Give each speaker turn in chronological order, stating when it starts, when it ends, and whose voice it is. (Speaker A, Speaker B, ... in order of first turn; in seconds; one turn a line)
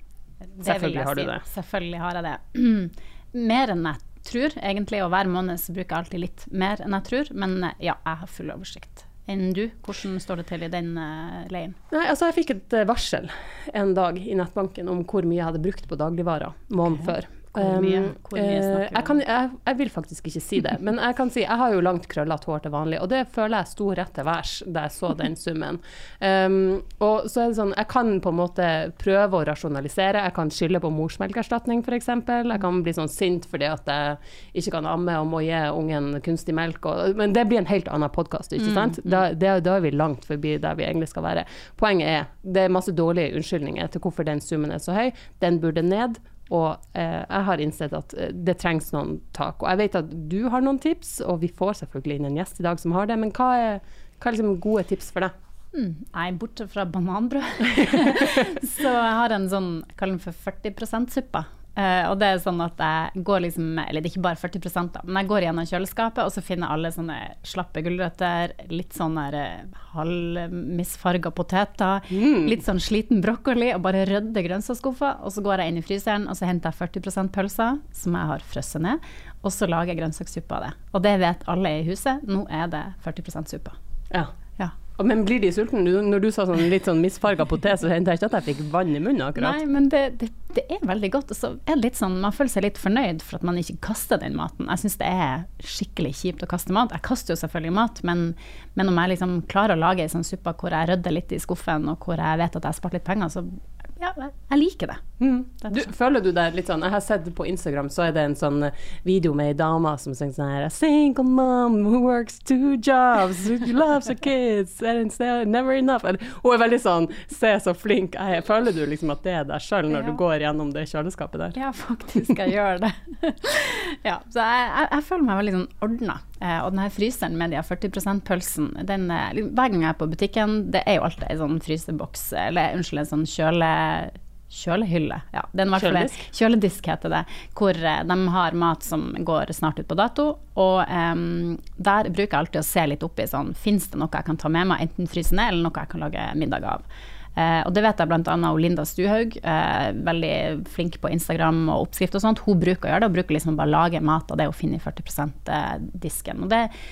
Speaker A: 0.6-11.8
Speaker B: 0.6-1.4
Speaker B: 11.9-55.3
Speaker A: 16.8-19.2
Speaker A: 38.6-39.2
Speaker A: 55.7-83.8
Speaker B: 72.1-72.6
Speaker B: 85.0-89.6
Speaker A: 89.3-105.0
Speaker B: 105.2-121.5
Speaker A: 105.6-105.9
Speaker A: 119.9-120.2
Speaker A: 121.5-146.8
Speaker B: 135.7-136.2
Speaker A: 147.3-156.7